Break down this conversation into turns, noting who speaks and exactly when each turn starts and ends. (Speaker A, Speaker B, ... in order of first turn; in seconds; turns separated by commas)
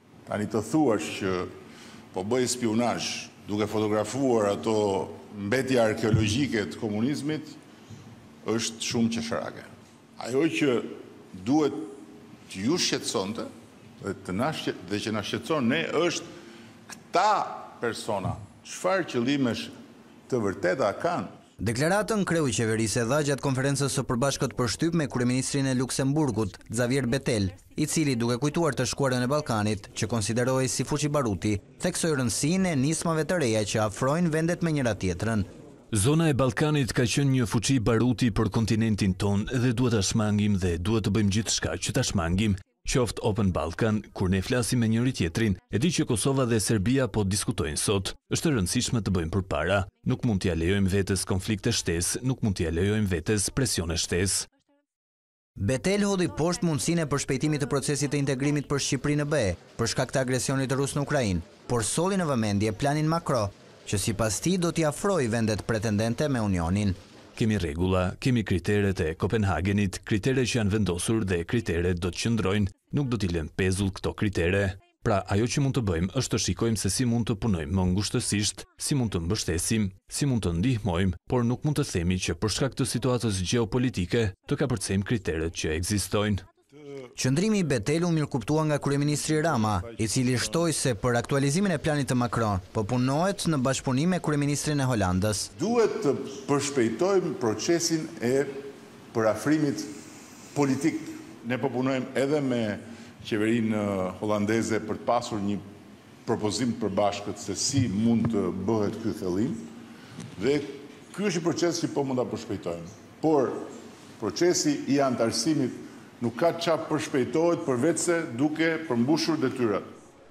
Speaker A: 0.3-1.5, Speaker A: 2.1-7.6, Speaker A: 8.4-13.5, Speaker A: 14.0-16.3, Speaker A: 17.1-19.7, Speaker A: 20.3-21.4, Speaker B: 21.6-35.5, Speaker C: 35.9-54.5, Speaker B: 55.6-67.0, Speaker C: 67.3-86.4, Speaker B: 87.2-95.5, Speaker A: 89.3-90.5, Speaker A: 95.5-98.6, Speaker A: 99.1-99.9, Speaker A: 100.5-105.6, Speaker A: 106.2-109.7, Speaker A: 110.4-119.9